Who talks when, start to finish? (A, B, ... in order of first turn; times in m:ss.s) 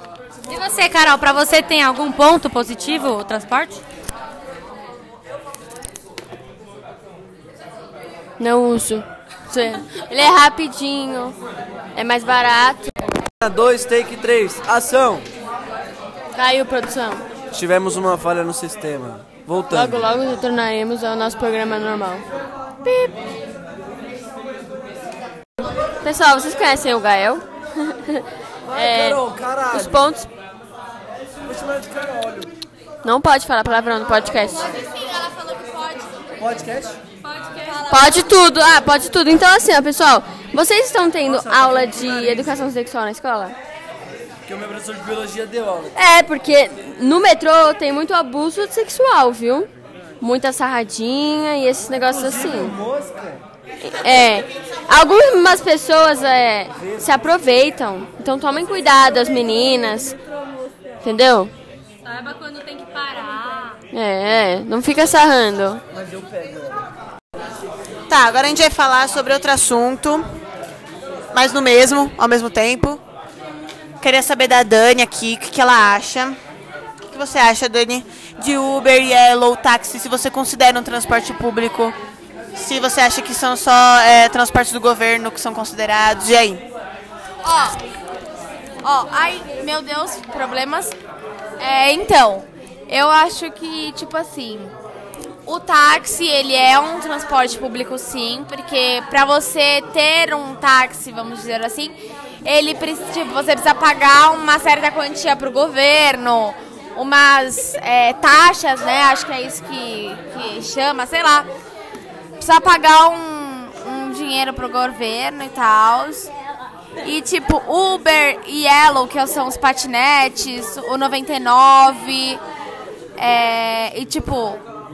0:00.5-0:03.8 A
0:08.4-0:11.3 B
0:11.9-0:13.0 B
0:13.4-0:15.3 C
0:16.3-0:17.2 B
0:17.5-0:20.1 C
0:19.7-0:22.2 B
0:26.0-0:27.4 B
0:28.1-0:30.3 B
0:28.7-0:30.0 C
0:31.4-0:32.5 C
0:33.0-0:34.7 B
0:36.4-0:37.0 C
0:37.2-0:38.2 A
0:37.8-0:43.6 B
0:41.2-0:42.5 C
0:44.4-0:46.0 C
0:45.9-0:49.7 B
0:50.2-0:52.7 B
0:52.0-0:53.4 C
0:53.8-1:00.1 B
0:56.8-0:57.1 C
1:01.0-1:01.5 B
1:02.0-1:03.8 A
1:03.9-1:05.8 B
1:06.0-1:06.8 C
1:08.1-1:10.2 D
1:11.3-1:13.0 D
1:14.0-1:16.4 D
1:17.0-1:22.0 D
1:22.5-1:26.6 D
1:27.4-1:27.8 E
1:28.8-1:30.9 E
1:31.6-1:34.7 E
1:35.4-1:51.5 E
1:52.4-1:56.3 E
1:57.0-2:02.4 E
2:03.2-2:04.6 E